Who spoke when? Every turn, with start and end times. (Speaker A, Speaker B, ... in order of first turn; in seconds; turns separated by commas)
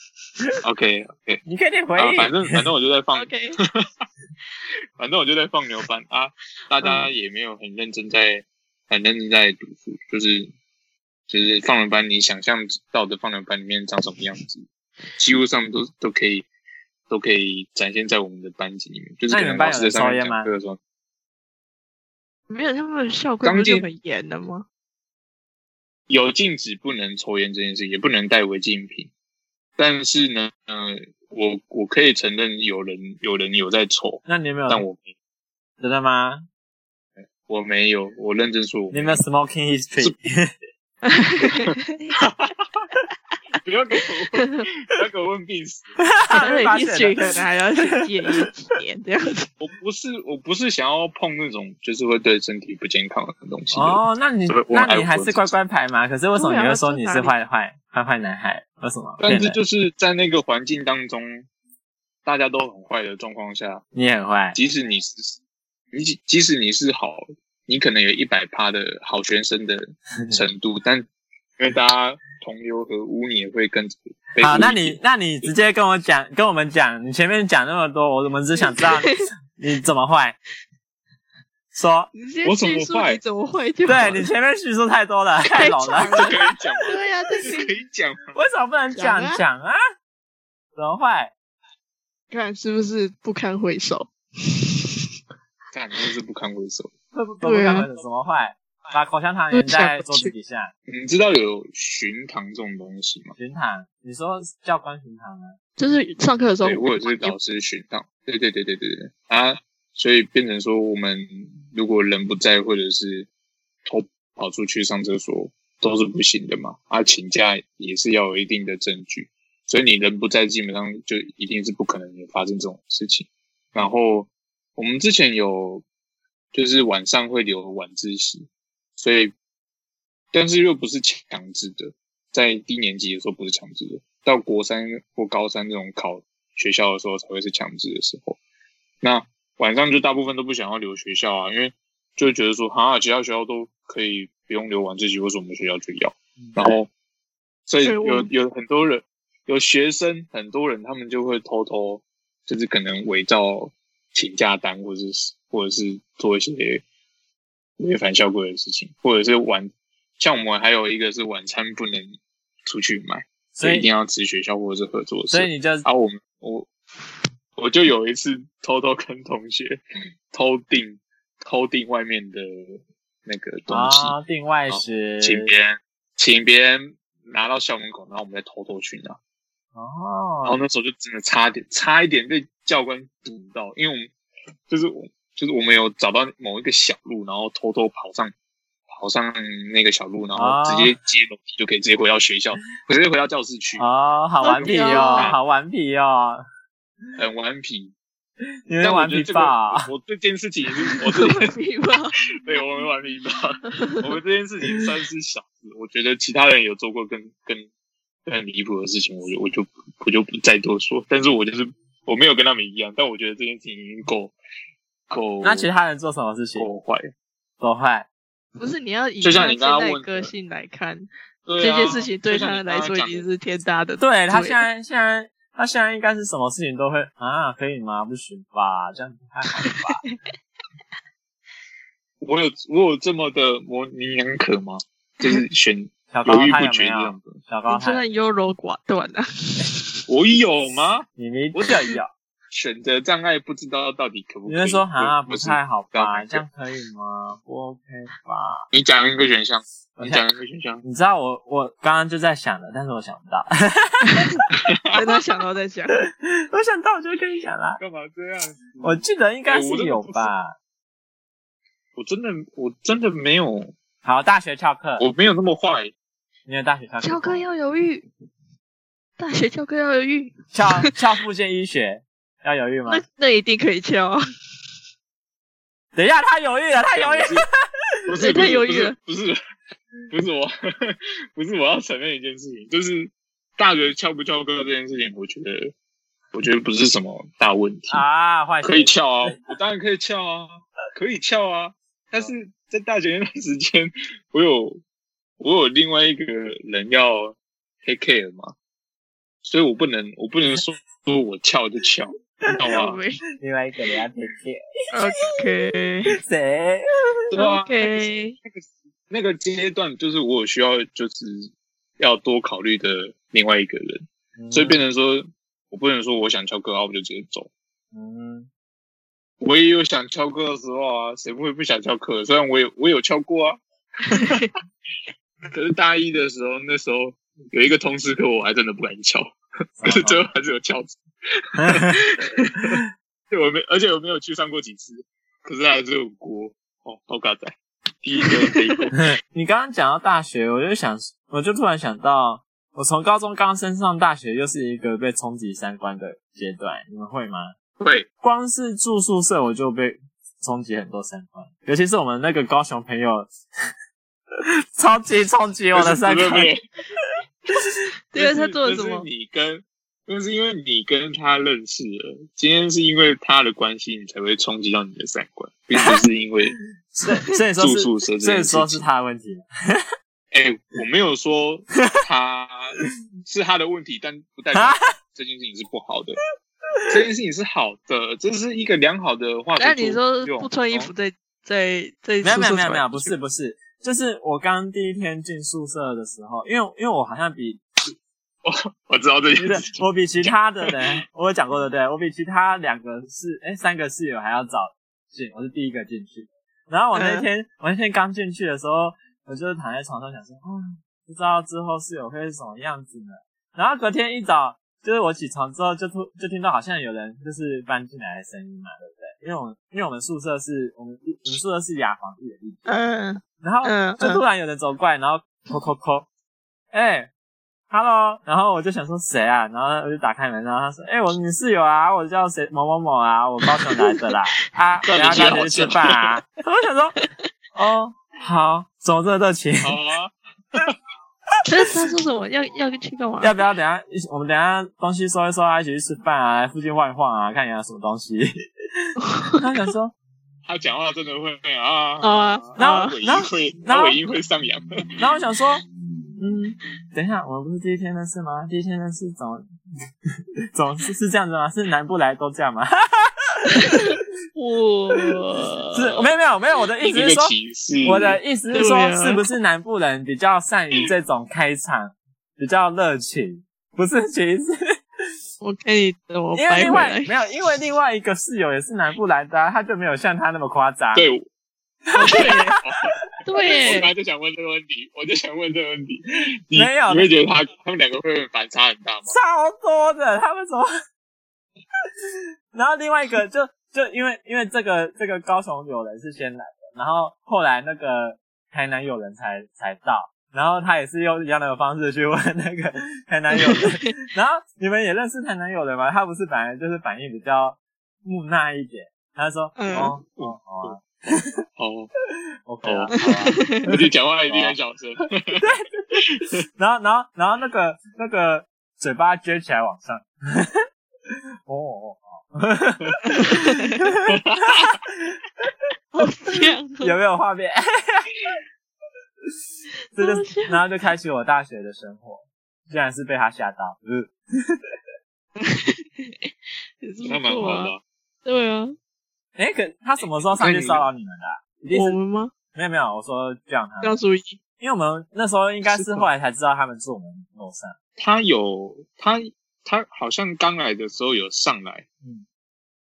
Speaker A: 0.6-1.4, Speaker B: 1.4-2.4, Speaker A: 2.0-3.9, Speaker C: 3.1-3.6, Speaker A: 5.0-10.5, Speaker A: 11.3-16.5, Speaker A: 17.1-20.8, Speaker B: 19.3-20.5, Speaker C: 22.5-24.7, Speaker A: 23.4-23.9, Speaker A: 26.1-29.1, Speaker A: 29.8-35.1, Speaker B: 34.2-34.8, Speaker B: 35.8-36.5, Speaker A: 37.5-39.2, Speaker B: 38.9-40.6, Speaker C: 41.0-42.1, Speaker A: 41.5-42.9, Speaker A: 43.6-45.9, Speaker B: 46.0-48.0, Speaker C: 46.3-49.5, Speaker A: 49.6-55.5, Speaker B: 53.7-59.6, Speaker C: 56.4-57.3, Speaker A: 59.2-61.5, Speaker A: 62.2-63.8, Speaker B: 63.9-64.6, Speaker A: 64.5-65.4, Speaker A: 65.9-71.1, Speaker A: 71.6-75.0, Speaker B: 74.4-80.4, Speaker C: 78.8-79.2, Speaker B: 81.7-82.1, Speaker C: 82.1-84.2, Speaker A: 82.4-83.2, Speaker B: 83.9-86.2, Speaker C: 85.5-87.7, Speaker A: 86.1-88.4, Speaker B: 88.3-89.8, Speaker C: 89.0-89.4, Speaker B: 90.8-91.3, Speaker C: 92.3-95.1, Speaker A: 95.7-96.9, Speaker B: 97.1-100.7, Speaker C: 97.4-97.9, Speaker C: 99.5-100.3, Speaker A: 100.9-103.3, Speaker B: 103.4-105.6, Speaker C: 105.8-107.4, Speaker A: 106.6-113.3, Speaker A: 113.9-125.8, Speaker A: 126.5-129.3, Speaker A: 130.3-138.4, Speaker A: 139.0-146.9, Speaker B: 146.4-146.7, Speaker A: 147.7-156.8, Speaker C: 147.8-148.3, Speaker A: 157.8-162.2, Speaker A: 162.7-166.7, Speaker B: 163.5-163.9, Speaker B: 165.3-165.9, Speaker A: 167.6-174.2, Speaker B: 173.7-175.5, Speaker A: 174.7-179.2, Speaker B: 179.8-180.6, Speaker A: 180.4-184.1, Speaker A: 184.7-188.3, Speaker A: 188.9-193.9, Speaker B: 190.4-190.9, Speaker B: 193.8-196.4, Speaker C: 194.4-195.3, Speaker A: 194.5-195.4, Speaker A: 197.2-197.9, Speaker B: 198.7-199.9, Speaker A: 198.8-201.5, Speaker C: 201.1-202.2, Speaker A: 202.4-207.7, Speaker C: 203.7-204.0, Speaker A: 208.3-214.3, Speaker A: 215.1-215.7, Speaker B: 215.4-216.7, Speaker A: 216.6-217.1, Speaker B: 217.6-218.1, Speaker C: 218.6-224.6, Speaker A: 219.2-220.3, Speaker A: 221.5-223.3, Speaker B: 224.0-230.0, Speaker C: 229.7-230.2, Speaker A: 232.2-237.4, Speaker B: 236.1-238.0, Speaker C: 237.7-240.0, Speaker A: 240.1-241.7, Speaker B: 241.2-242.1, Speaker A: 242.5-246.4, Speaker B: 244.5-248.6, Speaker A: 248.7-250.8, Speaker B: 250.0-250.2, Speaker B: 250.8-254.3, Speaker C: 254.1-256.0, Speaker A: 254.7-255.0, Speaker B: 255.9-257.8, Speaker A: 257.8-260.3, Speaker B: 258.8-260.6, Speaker A: 262.0-263.7, Speaker B: 264.0-265.1, Speaker A: 265.0-265.9, Speaker B: 266.5-267.4, Speaker C: 267.0-268.1, Speaker C: 269.2-270.9, Speaker B: 270.5-273.0, Speaker C: 272.9-274.2, Speaker B: 275.9-277.6, Speaker A: 276.9-277.4, Speaker A: 278.1-279.4, Speaker C: 278.2-278.9, Speaker A: 280.1-285.7, Speaker A: 286.3-288.0, Speaker B: 287.9-289.4, Speaker A: 288.6-294.8, Speaker A: 295.4-298.6, Speaker A: 299.4-303.0, Speaker C: 302.7-303.2, Speaker B: 303.4-304.6, Speaker C: 304.9-306.2, Speaker B: 306.1-307.3, Speaker A: 307.3-317.5, Speaker C: 307.4-308.4, Speaker B: 314.4-314.8, Speaker B: 317.9-318.5, Speaker A: 319.4-324.5, Speaker C: 324.2-324.5, Speaker A: 325.5-329.3, Speaker B: 329.8-330.2, Speaker A: 329.8-331.0, Speaker A: 331.6-339.1, Speaker B: 331.6-332.0, Speaker B: 339.0-347.5, Speaker A: 347.8-348.1, Speaker B: 348.2-353.3, Speaker B: 354.8-356.5, Speaker A: 355.7-356.6, Speaker C: 358.1-359.1, Speaker A: 358.1-366.6, Speaker B: 366.9-369.9, Speaker A: 367.6-368.9, Speaker A: 370.3-376.2, Speaker B: 374.5-374.9, Speaker A: 376.9-380.9, Speaker C: 379.6-383.1, Speaker B: 382.2-387.6, Speaker A: 388.4-390.7, Speaker B: 389.4-412.7, Speaker C: 396.9-397.3, Speaker C: 412.7-414.2, Speaker B: 413.4-416.1, Speaker B: 416.7-417.1, Speaker B: 417.7-427.0, Speaker C: 423.5-424.0, Speaker A: 424.9-426.1, Speaker B: 427.6-429.8, Speaker A: 429.6-430.7, Speaker C: 431.5-433.3, Speaker B: 433.2-438.8, Speaker C: 439.0-439.5, Speaker B: 439.4-439.9, Speaker A: 440.5-444.7, Speaker C: 442.0-443.0, Speaker B: 442.6-444.0, Speaker B: 445.0-445.6, Speaker B: 446.2-449.4, Speaker B: 450.5-453.9, Speaker C: 453.6-456.1, Speaker B: 455.7-464.6, Speaker A: 456.9-458.2, Speaker C: 458.5-459.2, Speaker C: 465.4-467.1, Speaker B: 466.3-471.1, Speaker A: 470.9-471.2, Speaker B: 471.9-472.6, Speaker A: 471.9-479.1, Speaker C: 472.0-472.5, Speaker C: 473.3-473.9, Speaker B: 476.5-477.1, Speaker B: 479.1-480.7, Speaker B: 482.5-501.3, Speaker C: 493.4-493.9, Speaker C: 499.6-500.0, Speaker A: 500.2-500.8, Speaker A: 501.6-501.9, Speaker B: 502.5-503.8, Speaker A: 502.6-506.4, Speaker C: 503.0-503.7, Speaker B: 504.3-504.6, Speaker B: 505.4-506.0, Speaker B: 506.6-510.6, Speaker B: 511.1-515.5, Speaker C: 513.3-513.8, Speaker A: 514.1-514.8, Speaker C: 515.9-517.0, Speaker B: 516.8-518.1, Speaker C: 520.0-520.6, Speaker B: 520.0-524.6, Speaker C: 525.4-527.7, Speaker A: 527.0-527.8, Speaker C: 528.2-528.8, Speaker B: 529.4-532.0, Speaker A: 530.4-530.9, Speaker C: 531.7-532.3, Speaker B: 532.5-534.0, Speaker C: 533.8-534.4, Speaker B: 534.6-537.8, Speaker A: 535.7-536.0, Speaker A: 538.0-541.9